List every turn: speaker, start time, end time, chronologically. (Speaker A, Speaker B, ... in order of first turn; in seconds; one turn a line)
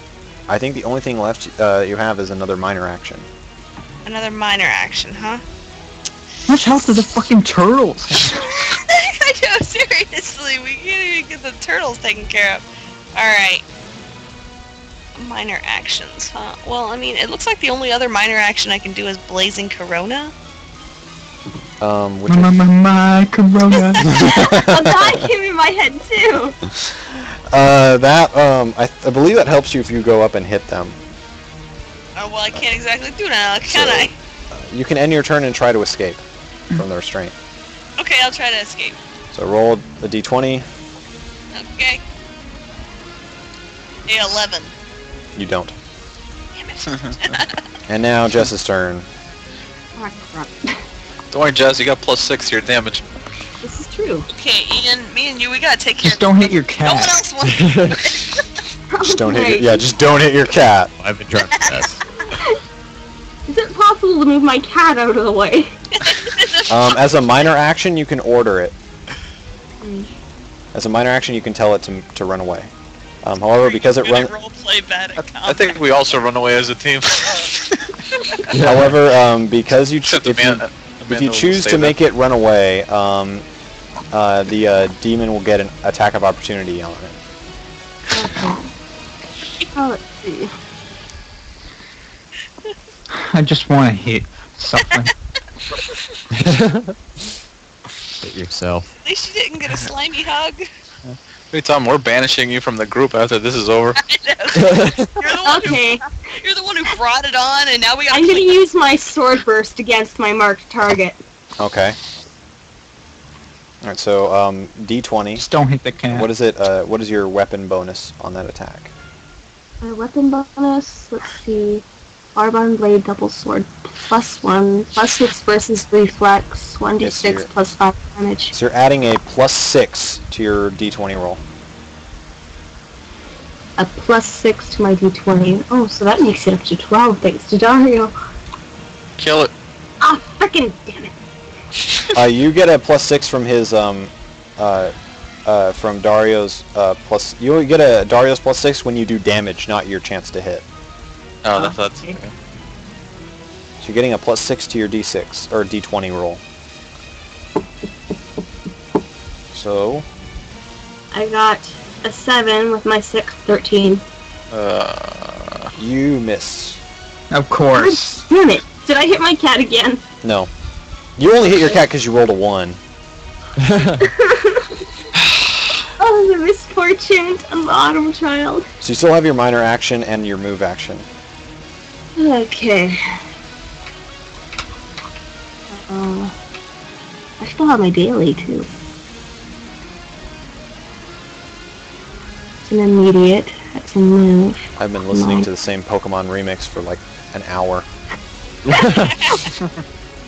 Speaker A: 0.5-3.3
Speaker B: 4.0-5.4
Speaker C: 6.5-8.4
Speaker B: 8.4-13.6
Speaker B: 15.2-20.3
Speaker A: 21.8-22.6
Speaker C: 22.3-24.1
Speaker D: 23.8-26.6
Speaker A: 24.2-25.1
Speaker A: 27.5-31.0
Speaker B: 32.1-34.1
Speaker A: 33.7-36.2
Speaker A: 36.7-37.3
Speaker B: 38.0-39.0
Speaker A: 39.3-40.6
Speaker B: 41.5-42.0
Speaker B: 44.1-44.7
Speaker A: 45.4-45.7
Speaker B: 46.5-47.5
Speaker A: 47.9-49.1
Speaker D: 50.0-50.8
Speaker E: 51.3-53.0
Speaker D: 53.6-54.3
Speaker B: 54.3-58.4
Speaker C: 56.0-57.2
Speaker F: 57.4-58.0
Speaker D: 58.9-59.8
Speaker A: 59.0-60.9
Speaker F: 61.0-62.0
Speaker B: 61.5-62.0
Speaker D: 63.5-65.7
Speaker B: 66.0-66.9
Speaker A: 66.7-68.7
Speaker D: 69.8-70.1
Speaker A: 70.7-72.7
Speaker A: 73.2-74.3
Speaker B: 73.6-75.8
Speaker E: 75.4-77.6
Speaker F: 78.5-78.9
Speaker A: 78.6-83.4
Speaker E: 80.1-82.0
Speaker A: 84.1-87.2
Speaker D: 88.1-88.7
Speaker D: 89.7-90.5
Speaker C: 93.1-95.1
Speaker F: 96.4-96.9
Speaker F: 98.2-98.9
Speaker B: 99.0-100.6
Speaker E: 101.5-104.0
Speaker B: 104.0-108.6
Speaker F: 104.6-105.2
Speaker D: 105.4-106.1
Speaker D: 108.1-111.2
Speaker A: 111.6-112.0
Speaker A: 113.8-115.5
Speaker C: 115.3-116.3
Speaker A: 116.1-118.9
Speaker D: 119.8-121.8
Speaker D: 122.3-128.5
Speaker A: 127.0-127.5
Speaker A: 128.5-131.4
Speaker D: 133.8-138.1
Speaker E: 139.2-139.5
Speaker D: 140.0-141.1
Speaker A: 142.1-144.9
Speaker A: 145.4-150.6
Speaker E: 151.4-152.3
Speaker A: 153.8-156.4
Speaker A: 159.5-160.1
Speaker D: 161.1-164.0
Speaker E: 164.5-165.7
Speaker A: 165.8-166.8
Speaker C: 167.3-168.2
Speaker D: 167.8-170.0
Speaker A: 170.2-170.5
Speaker A: 171.2-172.8
Speaker D: 174.0-174.8
Speaker D: 176.0-178.7
Speaker A: 178.8-181.1
Speaker D: 182.2-183.2
Speaker D: 185.7-186.3
Speaker D: 187.4-188.7
Speaker D: 192.6-194.6
Speaker A: 194.8-197.8
Speaker D: 195.1-195.5
Speaker F: 198.7-199.1
Speaker B: 199.1-199.5